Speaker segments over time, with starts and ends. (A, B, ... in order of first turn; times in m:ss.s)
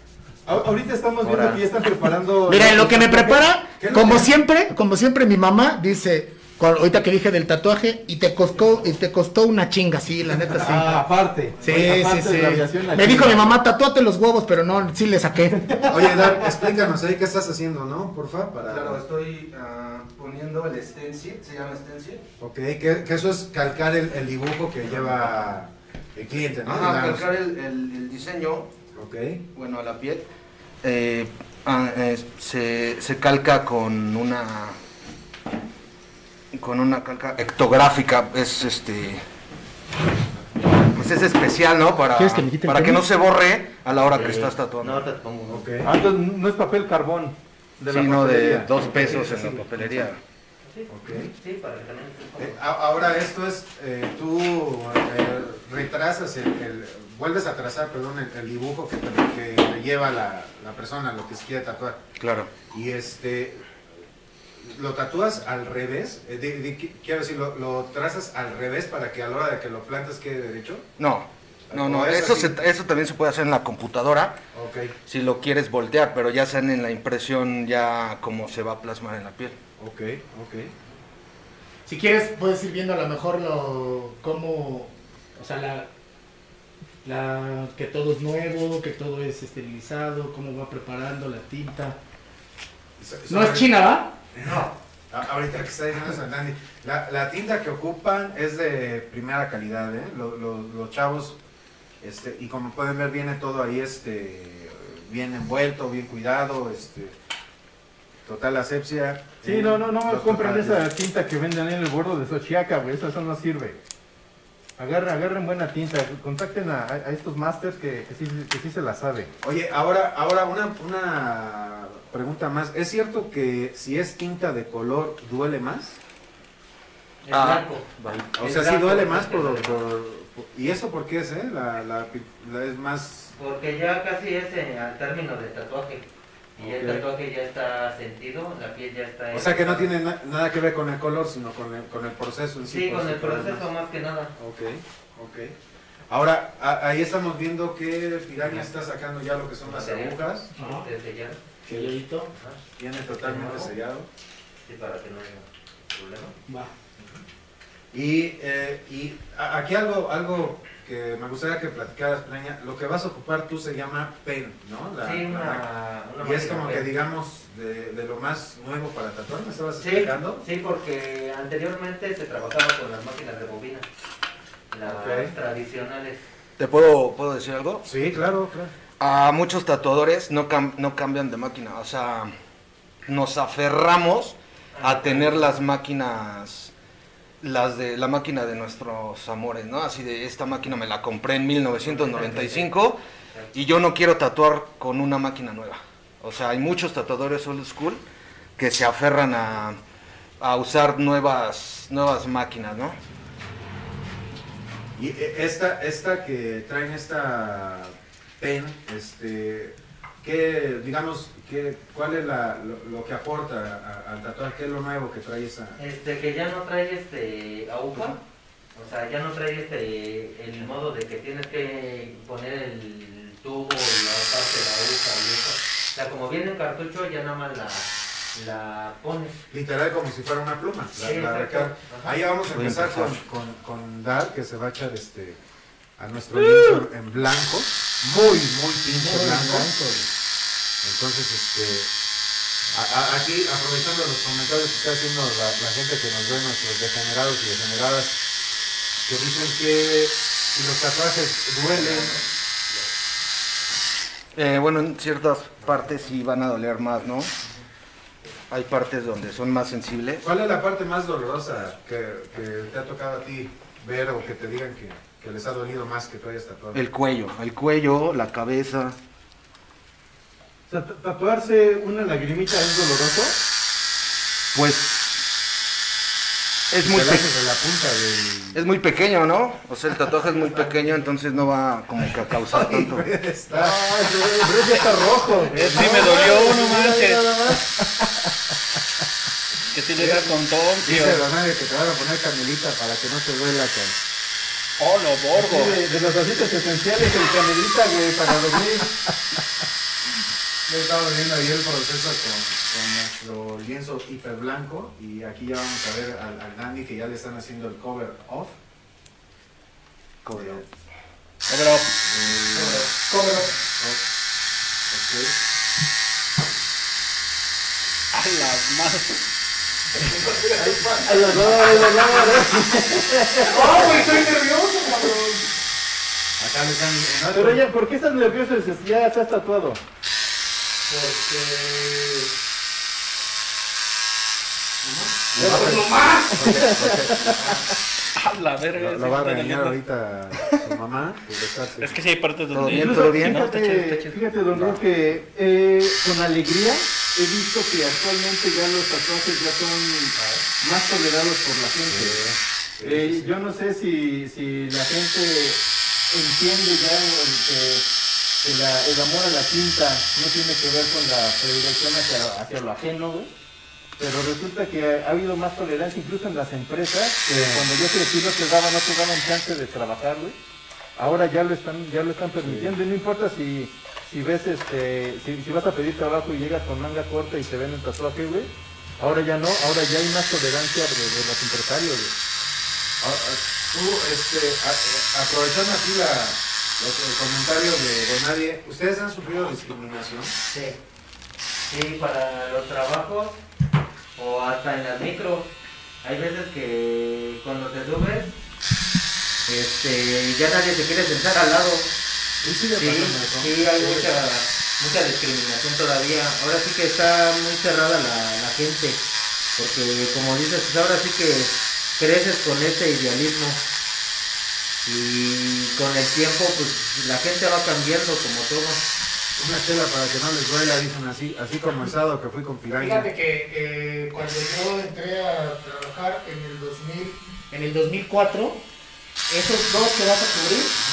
0:00.4-0:03.4 A
0:01.2-0:01.6 B
0:02.4-0:11.0 C
0:03.8-0:04.3 D
0:10.6-0:13.6 A
0:11.6-0:16.1 C
0:15.8-0:19.0 D
0:18.6-0:22.2 E
0:22.4-0:27.3 D
0:26.6-0:28.7 E
0:28.9-0:29.4 D
0:29.5-0:30.3 E
0:30.8-0:34.8 E
0:36.5-0:39.2 E
0:40.9-0:45.1 E
0:42.1-0:43.0 C
0:44.1-0:45.7 B
0:45.5-0:45.9 D
0:45.8-0:48.6 A
0:47.9-0:50.2 E
0:47.9-0:50.0 D
0:50.7-0:52.6 B
0:50.9-0:51.3 D
0:52.4-1:02.0 D
1:02.2-1:02.5 E
1:02.6-1:03.6 D
1:04.6-1:10.9 D
1:11.0-1:14.4 E
1:11.7-1:12.6 D
1:14.5-1:14.9 D
1:15.1-1:19.6 E
1:19.8-1:20.7 D
1:21.8-1:25.9 C
1:27.0-1:32.0 C
1:33.0-1:33.7 D
1:33.3-1:34.1 C
1:34.3-1:41.4 D
1:42.0-1:47.2 D
1:48.2-1:50.8 D
1:49.4-1:53.8 A
1:54.8-1:59.3 A
1:59.4-2:06.0 D
2:07.2-2:09.8 B
2:07.3-2:08.3 E
2:08.3-2:13.3 D
2:13.4-2:19.9 B
2:16.6-2:17.0 D
2:19.3-2:23.6 D
2:22.6-2:24.3 B
2:24.4-2:25.5 D
2:26.1-2:30.5 D
2:29.6-2:32.6 B
2:30.6-2:30.9 C
2:31.6-2:32.3 C
2:32.8-2:34.1 D
2:33.2-2:33.7 B
2:34.6-2:36.4 B
2:37.9-2:45.6 D
2:45.0-2:46.9 B
2:46.2-2:50.4 D
2:49.8-2:53.8 B
2:54.7-2:56.2 B
2:54.8-2:55.3 D
2:56.6-2:57.9 E
2:57.8-2:58.7 D
2:59.0-3:02.3 E
3:03.0-3:06.7 E
3:04.7-3:05.5 B
3:07.4-3:13.0 E
3:11.8-3:12.7 B
3:13.5-3:18.0 E
3:18.6-3:19.8 E
3:20.4-3:23.0 E
3:25.0-3:35.8 D
3:35.8-3:38.2 B
3:38.7-3:49.3 B
3:49.5-3:55.4 D
3:51.0-3:52.1 B
3:52.5-3:53.1 E
3:56.0-3:59.7 D
3:56.4-3:56.8 F
3:59.0-4:00.1 C
4:00.8-4:01.9 D
4:02.7-4:08.2 D
4:09.0-4:12.2 D
4:11.8-4:12.2 B
4:14.3-4:17.3 E
4:18.5-4:20.2 E
4:20.2-4:26.8 D
4:26.7-4:29.0 E
4:30.7-4:33.4 A
4:34.5-4:35.1 E
4:36.7-4:37.3 E
4:36.8-4:38.6 D
4:38.5-4:43.1 E
4:40.4-4:41.0 D
4:42.1-4:43.8 D
4:43.5-4:47.7 A
4:45.5-4:47.3 F
4:45.6-4:46.0 D
4:49.7-4:51.2 F
4:50.0-4:54.0 D
4:54.8-4:55.8 F
4:55.3-4:59.0 A
5:00.7-5:08.6 D
5:10.2-5:10.6 E
5:10.3-5:10.6 D
5:11.5-5:12.0 F
5:12.0-5:12.9 D
5:12.5-5:13.5 C
5:13.6-5:14.0 D
5:14.9-5:15.3 D
5:18.1-5:19.2 F
5:20.6-5:23.8 A
5:21.4-5:22.7 F
5:23.4-5:25.5 C
5:26.4-5:27.6 D
5:27.3-5:29.8 A
5:30.9-5:32.3 C
5:34.8-5:36.9 C
5:35.3-5:37.6 D
5:35.4-5:36.8 E
5:35.4-5:35.8 A
5:36.4-5:37.3 A
5:38.2-5:39.8 F
5:38.7-5:42.0 D
5:41.8-5:44.3 F
5:42.5-5:43.4 E
5:42.7-5:52.2 A
5:51.9-5:53.3 D
5:52.8-5:57.8 A
5:58.4-6:03.3 A
6:04.0-6:10.4 A
6:07.3-6:07.7 D
6:11.0-6:22.1 A
6:12.4-6:12.8 D
6:23.0-6:30.3 D
6:30.5-6:30.8 B
6:31.7-6:33.4 B
6:34.2-6:35.5 B
6:36.0-6:38.4 B
6:39.4-6:41.9 B
6:42.4-6:44.1 D
6:42.7-6:49.0 B
6:49.5-6:53.6 B
6:54.8-6:58.8 B
6:59.4-7:03.1 D
7:02.8-7:08.6 C
7:09.3-7:10.8 C